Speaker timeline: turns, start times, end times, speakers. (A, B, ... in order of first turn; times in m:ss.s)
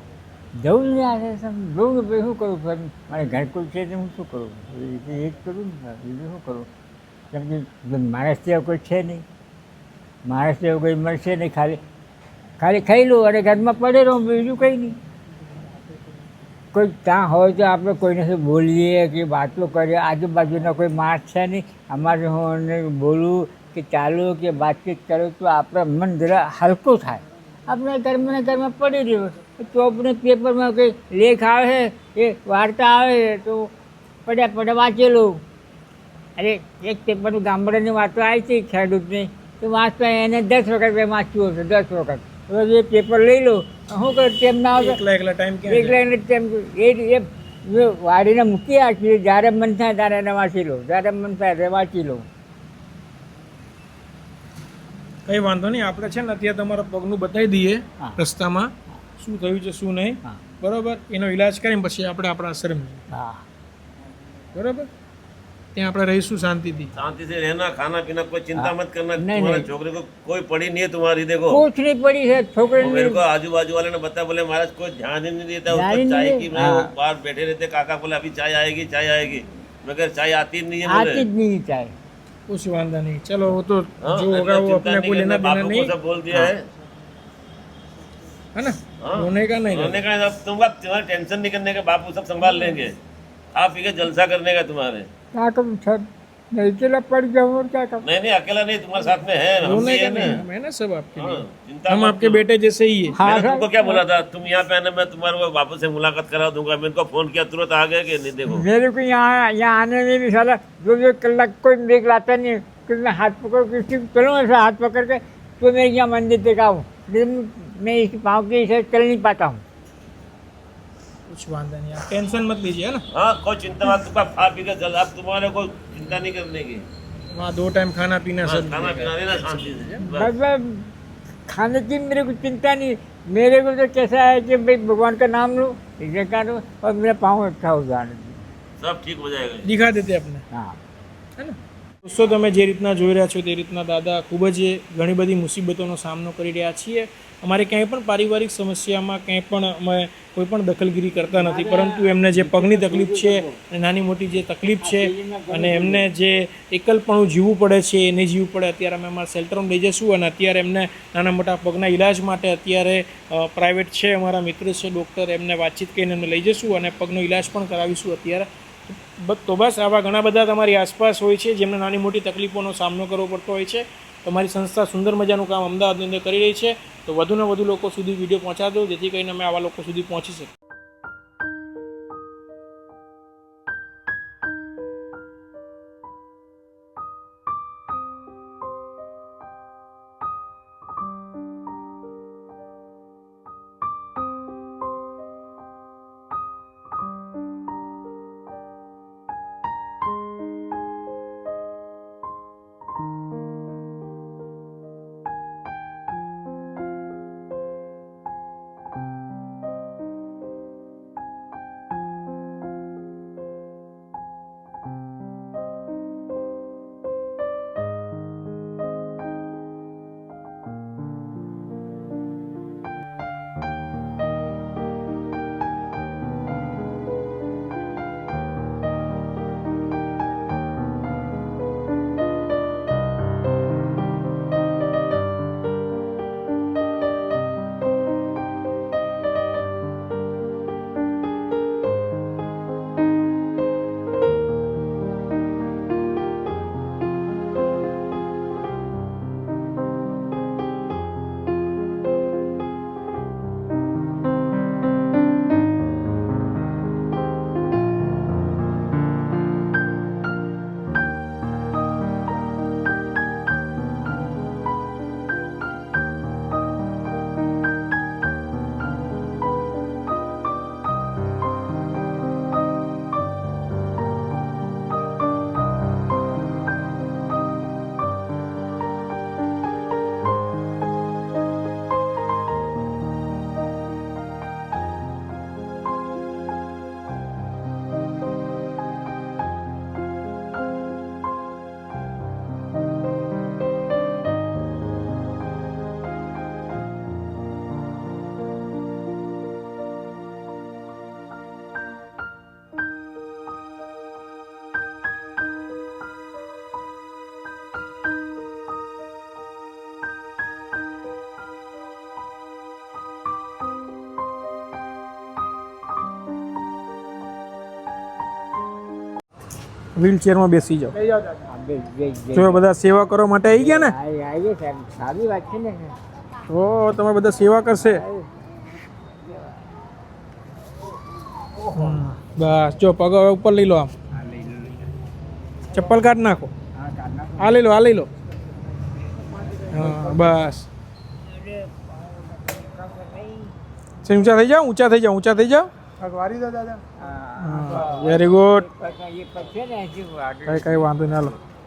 0:00.6-0:06.7 A
0:07.3-0:09.2 A
0:10.3-0:11.8 A
0:12.6-0:15.0 A
0:16.7-0:33.7 A
0:34.3-0:35.4 A
0:36.4-0:45.0 A
0:44.7-0:46.0 B
0:45.7-0:52.3 A
0:55.3-1:03.1 B
1:03.1-1:03.4 A
1:04.5-1:04.9 B
1:05.8-1:06.9 B
1:07.0-1:11.6 C
1:08.6-1:09.7 A
1:11.5-1:13.2 A
1:12.8-1:21.3 C
1:15.7-1:16.9 A
1:20.8-1:21.9 A
1:22.5-1:25.9 B
1:24.0-1:26.6 C
1:28.6-1:30.0 B
1:29.0-1:32.9 C
1:33.6-1:35.1 C
1:35.3-1:38.1 A
1:38.0-1:40.4 C
1:39.6-1:43.2 B
1:41.2-1:42.5 C
1:43.1-1:44.0 A
1:43.2-1:48.7 C
1:48.4-1:59.6 A
2:01.3-2:03.0 B
2:03.1-2:06.8 C
2:07.3-2:10.0 B
2:08.4-2:10.3 C
2:10.0-2:10.9 A
2:11.5-2:18.4 A
2:18.8-2:19.7 C
2:19.6-2:20.4 B
2:20.5-2:20.8 A
2:21.4-3:00.5 B
2:31.3-2:33.6 A
2:34.8-2:36.1 A
5:20.0-5:21.0 B
5:21.4-5:22.7 A
5:22.3-5:24.0 B
5:23.5-5:26.0 A
5:26.5-5:28.0 B
5:27.7-5:28.3 A
5:31.6-5:32.1 A
5:31.7-5:33.9 B
5:34.1-5:34.9 A
5:35.7-5:36.5 B
5:36.8-5:37.7 A
5:37.4-5:38.1 B
5:39.5-5:40.3 A
5:39.7-5:40.7 B
5:41.2-5:43.5 A
5:44.0-5:46.8 B
5:46.9-5:51.0 A
5:47.4-5:48.7 B
5:50.5-5:51.4 B